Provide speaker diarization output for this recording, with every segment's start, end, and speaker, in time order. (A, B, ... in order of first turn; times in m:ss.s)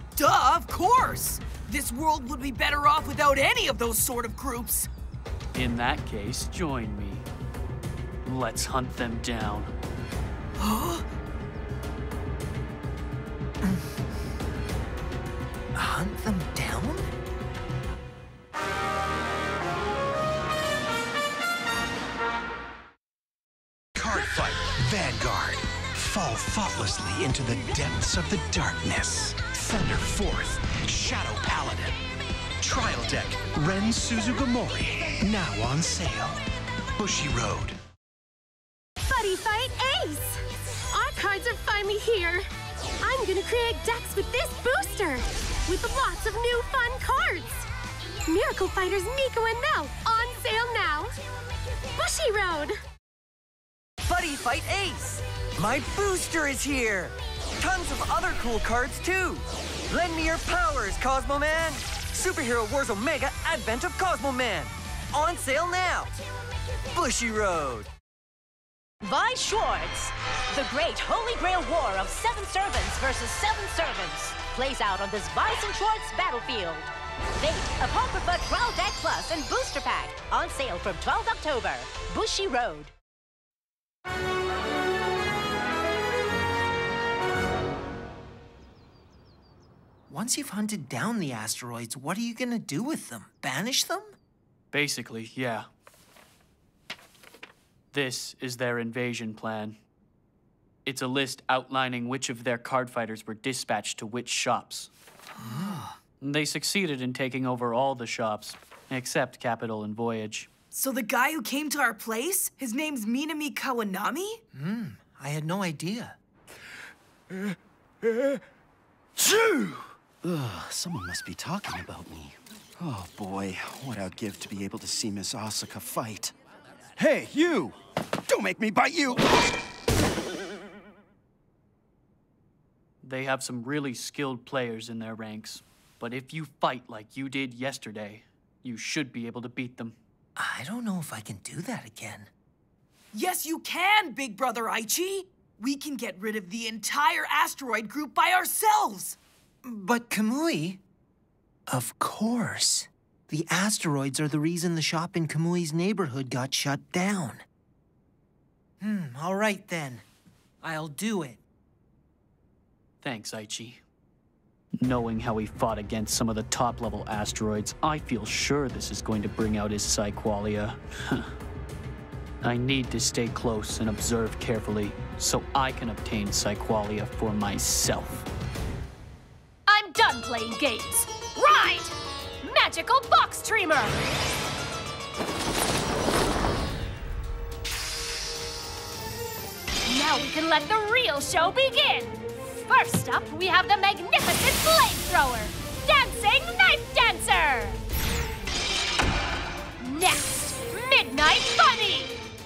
0:00.2-0:04.9 A
0:05.6-0:07.3 B
0:08.2-0:09.7 B
0:10.6-0:11.0 A
0:13.6-0:13.9 C
0:15.8-0:17.1 C
0:24.0-0:32.0 D
0:32.6-0:36.4 D
0:37.0-0:37.8 D
0:39.1-0:40.4 E
0:40.9-0:42.4 E
0:43.0-0:47.6 E
0:48.3-0:51.1 E
0:52.0-0:52.7 E
0:54.0-1:06.1 F
1:06.9-1:07.9 F
1:09.0-1:22.9 G
1:30.1-1:34.1 C
1:34.7-1:35.7 B
1:37.9-1:39.8 B
1:40.8-1:44.9 B
1:45.4-1:45.9 C
1:46.2-1:50.5 B
1:50.7-1:54.4 A
1:54.5-1:56.2 C
1:59.2-2:06.3 H
2:07.0-2:09.5 H
2:13.0-2:20.0 B
2:20.4-2:22.3 C
2:23.1-2:29.2 A
2:29.6-2:30.8 C
2:31.7-2:37.4 C
2:38.8-2:40.0 C
2:40.6-2:41.4 C
2:43.0-2:43.8 B
2:44.8-2:51.3 B
2:52.4-2:58.3 B
2:59.7-3:04.0 E
3:09.9-3:17.8 E
3:19.8-3:22.2 E